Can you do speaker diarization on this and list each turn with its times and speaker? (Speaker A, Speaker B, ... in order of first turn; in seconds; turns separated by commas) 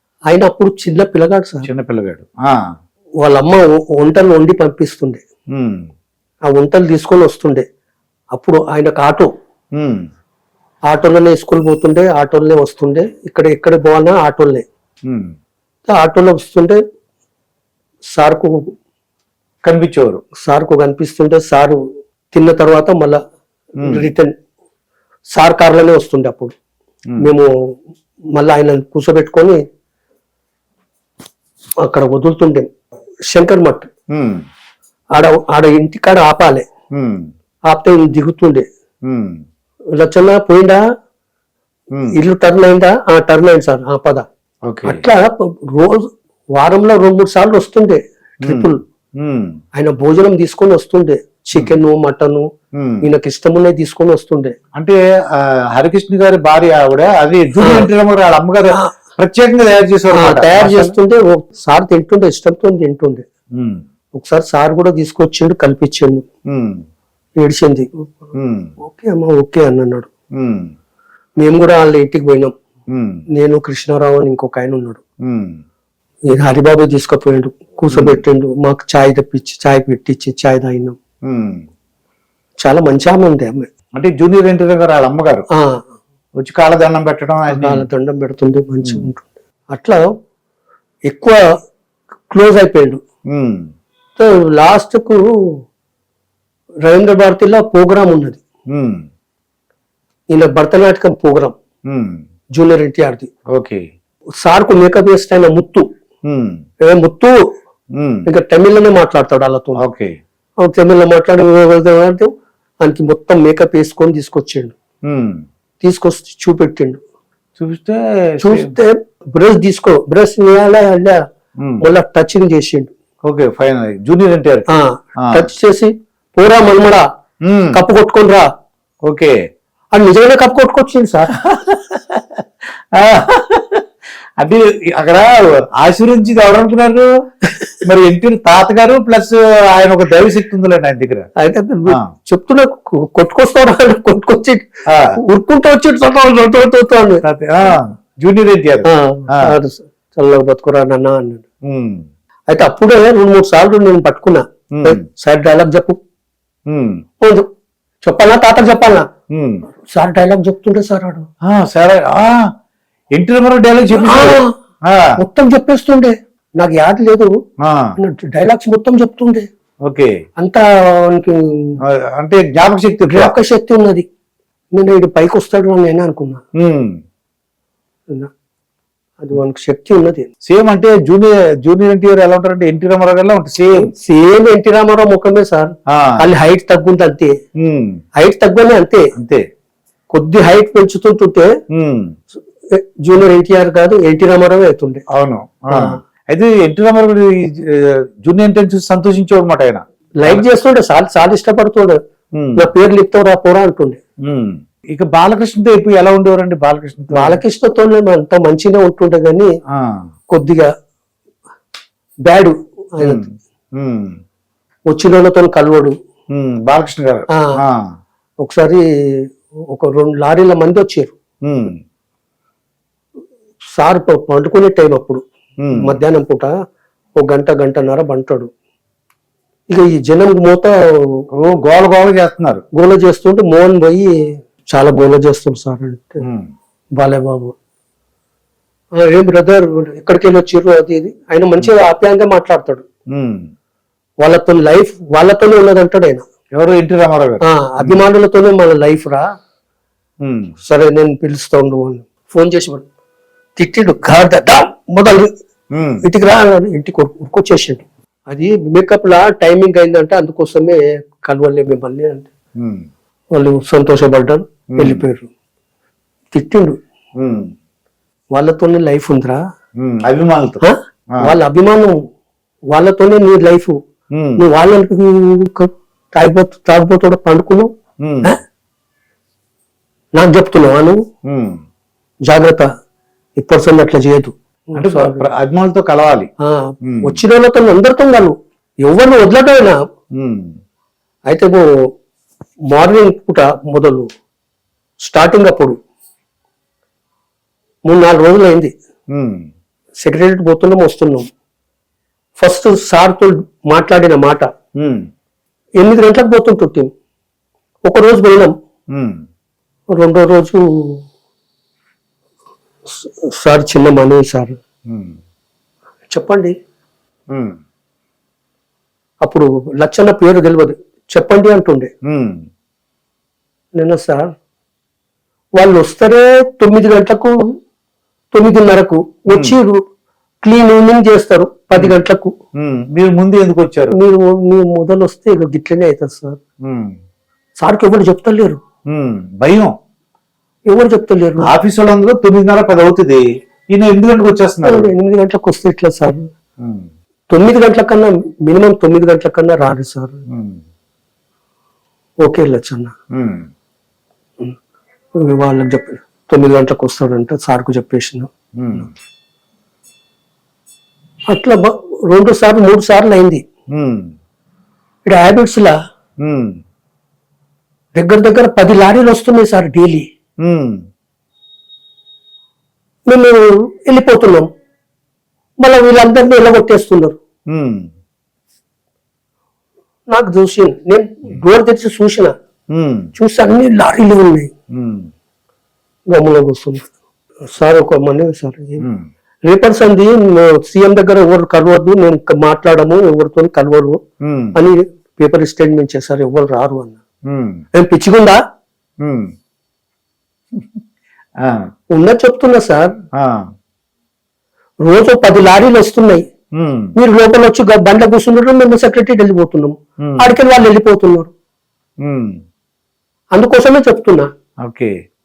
Speaker A: 0.3-1.7, Speaker B: 1.6-2.6, Speaker A: 3.2-5.2, Speaker B: 5.5-5.9, Speaker A: 6.5-7.7, Speaker A: 8.3-9.3, Speaker B: 9.8-10.1, Speaker A: 10.9-14.7, Speaker B: 15.0-15.3, Speaker A: 15.9-16.8, Speaker A: 18.1-18.7, Speaker B: 19.6-20.2, Speaker A: 20.3-23.2, Speaker B: 23.8-24.1, Speaker A: 23.8-24.3, Speaker A: 25.3-26.5, Speaker A: 27.2-27.5, Speaker A: 28.3-29.6, Speaker A: 31.8-32.7, Speaker A: 33.3-33.9, Speaker B: 34.1-34.5, Speaker A: 35.1-36.7, Speaker B: 36.9-37.3, Speaker A: 37.7-38.7, Speaker B: 39.0-39.5, Speaker A: 40.0-40.8, Speaker A: 42.1-44.3, Speaker B: 44.7-45.0, Speaker A: 44.8-48.8, Speaker B: 48.4-49.6, Speaker A: 49.7-52.5, Speaker B: 52.8-53.1, Speaker A: 53.0-54.6, Speaker B: 54.7-61.0, Speaker A: 57.6-57.9, Speaker A: 58.7-59.0, Speaker A: 60.1-63.3, Speaker B: 63.5-63.8, Speaker A: 64.1-66.3, Speaker B: 66.5-66.8, Speaker A: 67.4-68.1, Speaker B: 68.3-68.7, Speaker A: 68.8-70.1, Speaker B: 70.4-70.7, Speaker A: 71.4-72.5, Speaker B: 72.9-73.2, Speaker A: 73.3-75.0, Speaker B: 75.2-75.6, Speaker A: 76.3-81.0, Speaker B: 77.9-78.2, Speaker B: 81.3-81.7, Speaker A: 82.6-83.7, Speaker B: 84.0-85.5, Speaker A: 85.5-85.9, Speaker B: 86.4-87.9, Speaker A: 87.5-90.0, Speaker B: 88.8-89.1, Speaker A: 91.1-91.4, Speaker A: 92.3-93.0, Speaker B: 93.3-93.7, Speaker A: 94.2-95.6, Speaker A: 96.8-98.4, Speaker B: 98.7-99.1, Speaker A: 100.3-101.6, Speaker B: 101.9-102.2, Speaker A: 102.5-103.3, Speaker B: 103.5-103.9, Speaker A: 104.4-105.9, Speaker B: 106.2-106.6, Speaker A: 106.8-107.5, Speaker B: 107.9-108.3, Speaker A: 108.3-109.8, Speaker B: 109.8-110.2, Speaker A: 110.6-114.8, Speaker B: 115.0-115.5, Speaker A: 115.8-117.0, Speaker B: 117.6-118.8, Speaker A: 118.4-121.3, Speaker A: 121.8-122.9, Speaker B: 123.2-124.7, Speaker A: 124.7-127.1, Speaker B: 125.2-125.5, Speaker B: 127.4-127.8, Speaker A: 127.7-128.5, Speaker B: 129.1-129.3, Speaker A: 129.9-131.3, Speaker B: 131.3-133.8, Speaker B: 134.4-137.1, Speaker B: 137.8-141.3, Speaker A: 141.4-147.2, Speaker B: 144.8-145.2, Speaker B: 147.2-149.6, Speaker A: 148.8-151.5, Speaker B: 151.6-152.1, Speaker A: 152.5-156.0, Speaker B: 154.7-155.1, Speaker B: 156.7-157.0, Speaker A: 157.2-157.5, Speaker A: 158.0-159.1, Speaker B: 159.3-159.6, Speaker A: 159.8-161.3, Speaker B: 161.4-162.5, Speaker B: 163.1-165.1, Speaker A: 163.9-164.5, Speaker A: 165.2-167.4, Speaker B: 167.6-167.9, Speaker A: 168.0-169.5, Speaker B: 169.8-170.1, Speaker A: 170.4-171.8, Speaker B: 171.8-173.3, Speaker A: 173.1-174.1, Speaker A: 174.7-176.4, Speaker B: 176.6-177.0, Speaker A: 179.2-180.3, Speaker B: 180.4-183.9, Speaker A: 183.7-187.3, Speaker B: 185.9-186.1, Speaker B: 187.6-188.0, Speaker A: 188.2-189.1, Speaker B: 189.2-189.4, Speaker A: 190.1-191.5, Speaker B: 191.7-192.2, Speaker A: 192.7-195.0, Speaker B: 195.1-200.4, Speaker A: 195.7-196.0, Speaker A: 200.2-202.0, Speaker B: 202.3-202.7, Speaker A: 202.6-204.0, Speaker B: 204.2-207.4, Speaker A: 207.1-209.5, Speaker B: 209.7-210.0, Speaker A: 210.3-210.7, Speaker A: 212.2-213.3, Speaker B: 213.0-214.2, Speaker A: 214.9-215.9, Speaker B: 216.3-217.8, Speaker A: 217.3-217.6, Speaker A: 218.4-221.2, Speaker B: 221.4-221.8, Speaker A: 223.8-225.2, Speaker B: 225.6-226.0, Speaker A: 225.8-226.5, Speaker A: 227.2-228.5, Speaker A: 229.7-231.2, Speaker B: 231.4-232.6, Speaker A: 232.7-234.1, Speaker A: 234.7-236.2, Speaker B: 236.2-236.5, Speaker A: 237.0-237.5, Speaker A: 239.0-242.8, Speaker B: 243.1-243.5, Speaker A: 244.2-246.2, Speaker B: 246.5-248.0, Speaker A: 247.4-249.2, Speaker B: 250.2-250.6, Speaker A: 250.6-252.9, Speaker A: 253.6-255.3, Speaker B: 255.7-256.0, Speaker A: 256.0-262.3, Speaker B: 262.6-262.9, Speaker A: 263.3-265.3, Speaker B: 264.7-265.1, Speaker A: 266.3-266.8, Speaker B: 267.2-267.5, Speaker A: 268.3-269.4, Speaker B: 269.8-270.6, Speaker A: 270.6-271.9, Speaker A: 272.7-273.8, Speaker B: 274.1-274.4, Speaker A: 274.4-277.7, Speaker B: 278.0-278.3, Speaker A: 280.1-281.0, Speaker B: 281.2-281.6, Speaker A: 282.3-282.7, Speaker A: 283.4-285.3, Speaker B: 284.8-286.3, Speaker A: 286.4-289.8, Speaker B: 286.8-287.2, Speaker B: 290.1-290.6, Speaker A: 291.3-291.6, Speaker A: 292.7-294.1, Speaker A: 295.0-295.8, Speaker A: 297.9-298.7, Speaker B: 299.1-299.5, Speaker A: 300.0-301.3, Speaker A: 302.4-304.5, Speaker B: 304.8-305.1, Speaker A: 305.8-306.9, Speaker A: 307.9-308.5, Speaker B: 308.9-309.2, Speaker A: 309.9-311.0, Speaker A: 312.8-314.6, Speaker B: 314.9-315.2, Speaker A: 316.1-316.6, Speaker B: 317.3-317.6, Speaker A: 319.2-321.9, Speaker B: 322.1-322.4, Speaker A: 323.8-324.3, Speaker A: 325.6-327.3, Speaker A: 328.3-329.8, Speaker B: 329.3-329.6, Speaker A: 330.4-332.3, Speaker B: 332.6-333.9, Speaker A: 333.9-336.4, Speaker B: 336.6-337.0, Speaker A: 337.6-338.6, Speaker B: 338.9-339.7, Speaker A: 340.7-341.5, Speaker B: 341.4-344.9, Speaker A: 344.6-346.3, Speaker B: 346.6-346.9, Speaker A: 347.3-350.2, Speaker B: 350.3-350.6, Speaker A: 352.2-352.9, Speaker B: 353.1-353.5, Speaker A: 355.2-358.3, Speaker B: 358.6-358.9, Speaker A: 361.3-363.4, Speaker B: 363.7-364.1, Speaker A: 365.1-365.8, Speaker B: 366.2-366.6, Speaker A: 367.9-370.1, Speaker B: 370.4-370.9, Speaker A: 373.1-374.5, Speaker A: 375.6-377.2, Speaker B: 377.5-377.9, Speaker A: 380.1-382.3, Speaker B: 382.7-383.1, Speaker A: 383.1-384.5, Speaker B: 384.7-385.1, Speaker A: 386.1-386.9, Speaker A: 387.5-388.9, Speaker B: 388.8-389.1, Speaker A: 389.5-394.0, Speaker B: 394.2-394.6, Speaker A: 394.6-397.0, Speaker B: 397.2-397.6, Speaker A: 397.7-398.4, Speaker B: 399.0-399.3, Speaker B: 401.4-401.7, Speaker A: 401.9-402.9, Speaker B: 403.2-403.5, Speaker A: 404.8-406.3, Speaker B: 406.5-406.9, Speaker A: 406.9-411.3, Speaker B: 410.0-410.3, Speaker B: 412.0-412.4, Speaker A: 413.3-414.3, Speaker B: 414.6-414.9